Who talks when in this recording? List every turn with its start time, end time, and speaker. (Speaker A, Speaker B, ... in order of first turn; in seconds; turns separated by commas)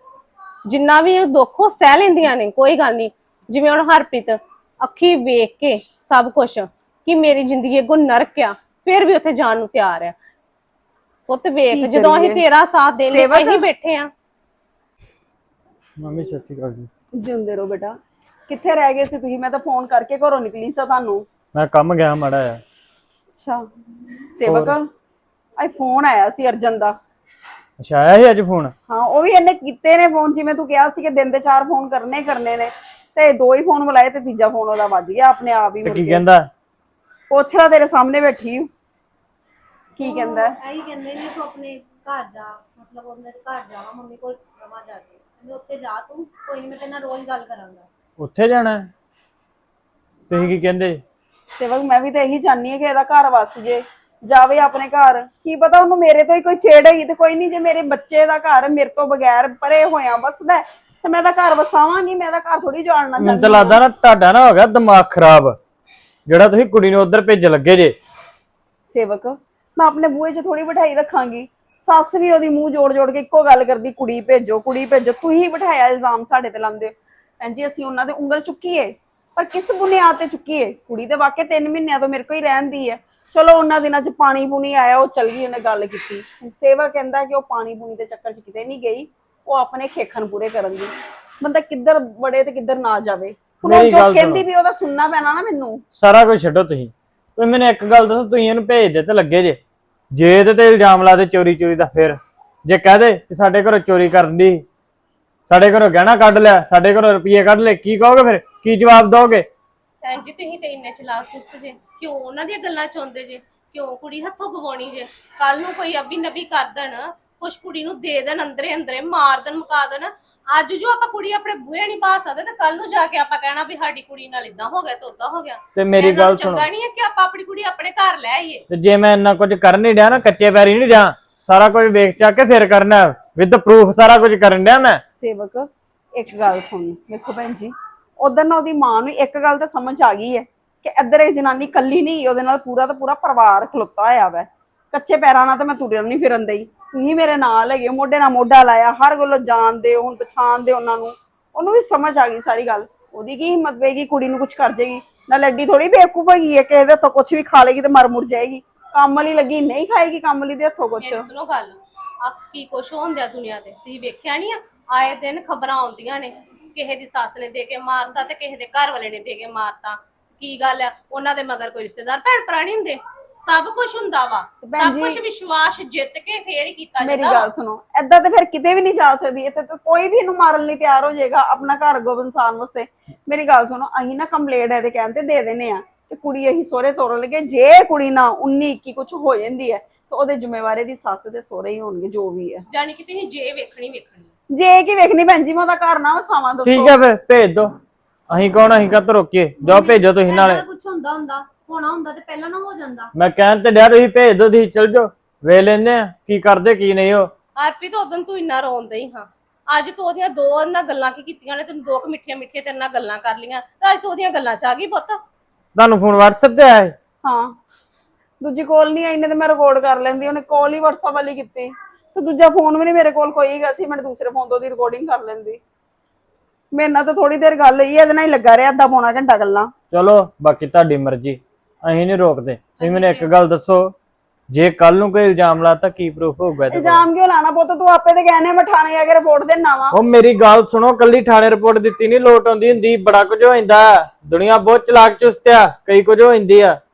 Speaker A: 0.7-10.1, Speaker A: 11.3-14.1, Speaker B: 11.7-12.4, Speaker B: 13.0-13.7, Speaker C: 16.0-16.9, Speaker B: 17.2-21.2, Speaker C: 21.5-22.6, Speaker B: 23.3-23.7, Speaker B: 24.3-24.9, Speaker C: 24.4-24.7, Speaker B: 25.6-27.0, Speaker C: 27.8-28.7, Speaker B: 28.9-36.2, Speaker C: 35.8-36.5, Speaker B: 37.3-38.7, Speaker B: 40.0-40.5, Speaker D: 40.0-47.9, Speaker C: 48.2-48.9, Speaker C: 50.3-51.0, Speaker B: 51.5-63.8, Speaker C: 63.2-65.6, Speaker C: 66.3-67.9, Speaker B: 68.8-95.8, Speaker C: 93.6-94.4, Speaker C: 95.9-99.6, Speaker C: 100.1-104.6, Speaker C: 105.5-109.5, Speaker A: 110.0-128.6, Speaker C: 125.8-126.7, Speaker C: 128.7-135.0, Speaker B: 135.1-161.3, Speaker A: 161.0-177.5, Speaker B: 174.6-175.2, Speaker B: 177.0-192.7, Speaker A: 192.7-194.3, Speaker B: 194.5-196.9, Speaker C: 196.6-197.7, Speaker C: 198.3-200.6, Speaker D: 199.6-203.1, Speaker C: 203.1-207.3, Speaker A: 207.6-215.2, Speaker C: 215.7-216.9, Speaker B: 217.2-217.5, Speaker B: 218.4-225.6, Speaker B: 226.7-229.7, Speaker C: 229.9-233.9, Speaker A: 232.8-233.3, Speaker C: 234.5-237.0, Speaker B: 236.7-239.9, Speaker C: 239.9-246.8